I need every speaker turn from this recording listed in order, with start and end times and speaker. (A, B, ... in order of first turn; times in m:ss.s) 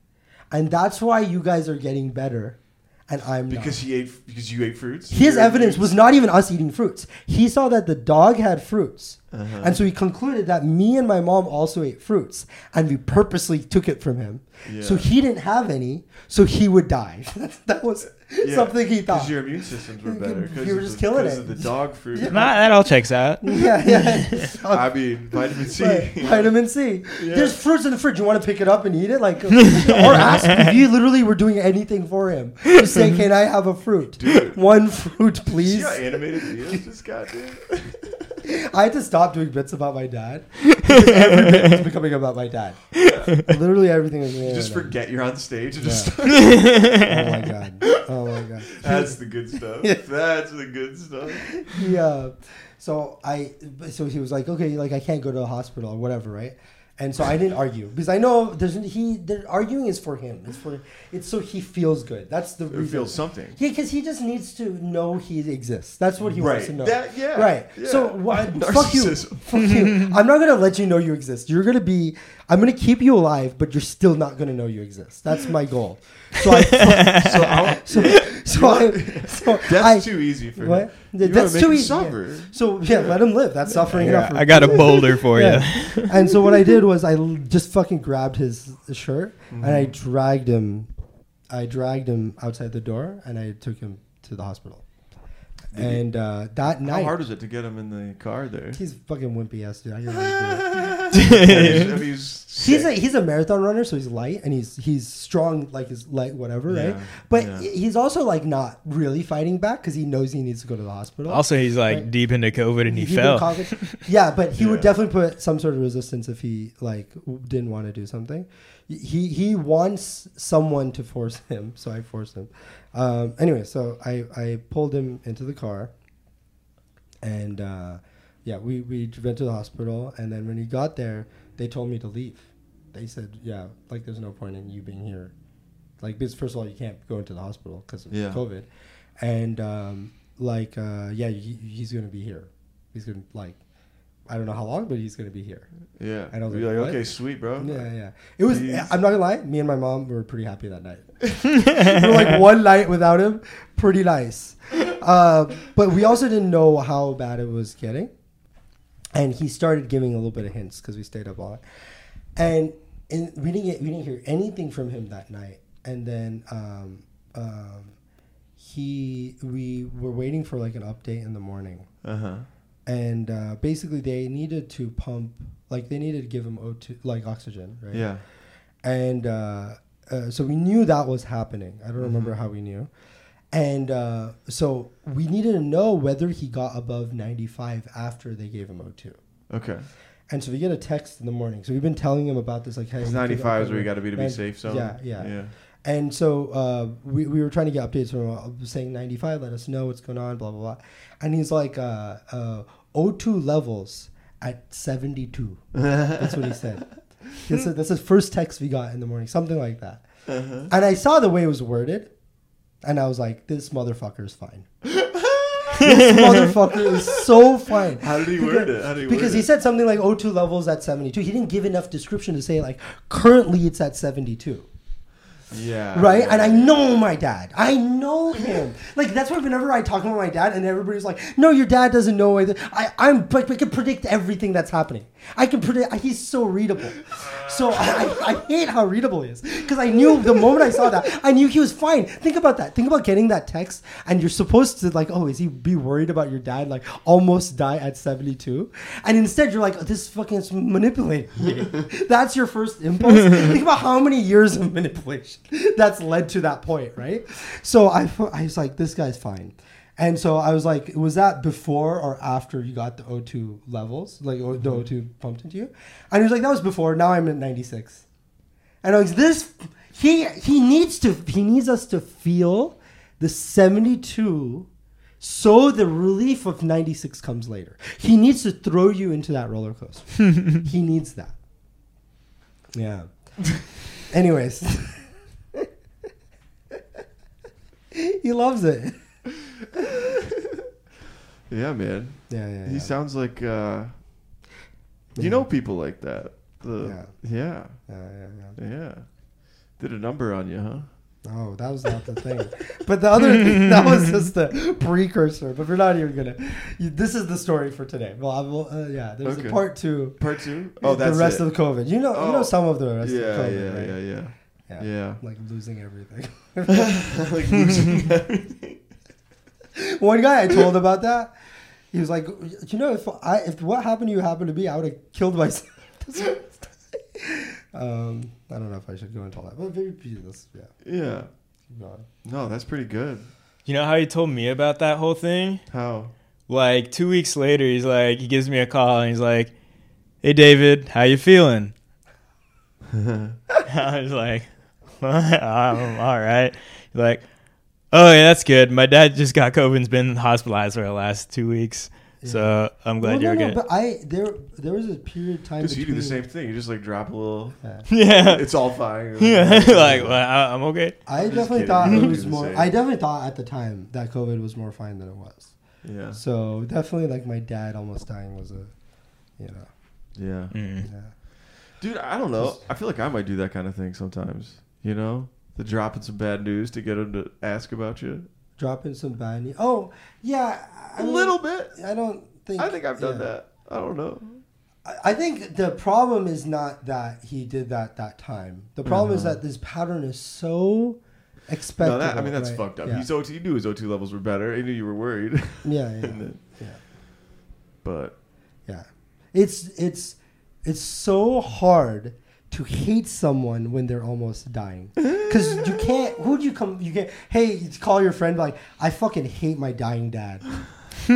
0:00.5-0:03.8 A
0:03.5-0:06.0 B
0:05.1-0:22.6 A
0:09.3-0:09.8 B
0:14.6-0:15.1 B
0:18.4-0:22.4 B
0:22.3-0:24.5 C
0:23.4-0:25.0 A
0:24.7-0:26.5 B
0:25.7-0:36.8 A
0:27.2-0:27.6 B
0:34.2-0:34.6 B
0:35.5-0:38.4 B
0:38.4-0:45.0 A
0:43.0-0:43.3 B
0:44.4-0:47.0 B
0:45.8-0:46.3 A
0:46.4-0:47.0 C
0:46.9-0:50.0 A
0:48.7-0:51.7 B
0:51.5-1:30.9 A
1:02.7-1:03.6 B
1:06.2-1:09.6 B
1:16.8-1:17.3 C
1:17.1-1:23.2 B
1:23.9-1:26.1 C
1:29.5-1:29.9 B
1:31.5-1:34.8 A
1:35.7-1:36.0 B
1:35.7-1:37.1 A
1:36.6-1:38.8 B
1:38.7-1:52.1 A
1:40.1-1:42.9 B
1:41.2-1:41.8 C
1:46.7-1:47.7 B
1:51.3-1:54.0 C
1:52.8-2:05.9 A
1:54.6-1:54.9 B
2:07.2-2:15.3 A
2:16.0-2:23.6 A
2:18.1-2:18.4 B
2:24.3-2:25.7 A
2:26.0-2:27.9 B
2:26.3-2:27.0 A
2:27.6-2:38.1 A
2:28.4-2:28.9 B
2:39.1-2:41.6 A
2:42.4-2:47.9 A
2:48.6-2:51.9 A
2:52.0-2:52.5 B
2:52.8-2:58.1 A
2:57.9-2:58.2 B
2:58.8-3:02.9 A
3:02.0-3:02.3 B
3:03.5-3:09.2 A
3:09.5-3:09.9 B
3:10.3-3:30.1 A
3:13.0-3:15.5 B
3:25.7-3:26.3 B
3:30.3-3:30.7 B
3:30.7-3:32.1 A
3:32.8-3:34.7 A
3:34.9-3:35.9 B
3:35.8-3:44.7 A
3:38.0-3:39.5 B
3:45.5-3:46.8 B
3:45.9-4:28.0 A
4:24.6-4:24.8 B
4:28.8-4:34.7 A
4:35.2-4:41.3 A
4:42.7-4:43.1 A
4:44.0-4:45.2 A
4:47.9-4:49.1 A
4:51.5-4:54.0 B
4:52.3-4:52.9 A
4:55.1-4:55.4 A
4:55.2-4:57.8 B
4:56.8-4:57.1 A
4:57.8-4:58.6 A
4:58.6-4:59.0 B
4:59.8-5:00.9 B
5:01.2-5:10.2 A
5:09.2-5:11.5 B
5:10.8-5:14.0 A
5:12.1-5:15.2 B
5:14.7-5:17.2 A
5:16.7-5:18.8 B
5:19.7-5:21.3 A
5:21.9-5:30.7 A
5:30.8-5:31.3 B
5:31.7-5:32.0 A
5:32.2-5:33.3 B
5:33.6-5:35.6 C
5:35.7-5:36.1 B
5:36.5-5:39.5 C
5:40.2-5:41.7 C
5:42.9-5:43.3 B
5:43.6-5:47.3 C
5:47.9-5:53.6 C
5:52.2-5:56.2 A
5:55.6-6:00.2 B
5:57.9-6:01.0 C
6:01.0-6:05.6 A
6:01.2-6:02.7 B
6:05.8-6:06.2 B
6:06.1-6:08.7 A
6:09.4-6:09.7 A
6:10.1-6:10.5 B
6:10.5-6:10.9 C
6:10.8-6:11.1 A
6:11.7-6:18.3 B
6:18.6-6:23.3 A
6:21.0-6:21.7 B
6:22.6-6:24.4 B
6:24.8-6:33.1 A
6:28.8-6:29.4 B
6:31.8-6:36.4 B
6:35.6-6:36.8 A
6:37.8-6:38.1 B
6:38.6-6:50.8 A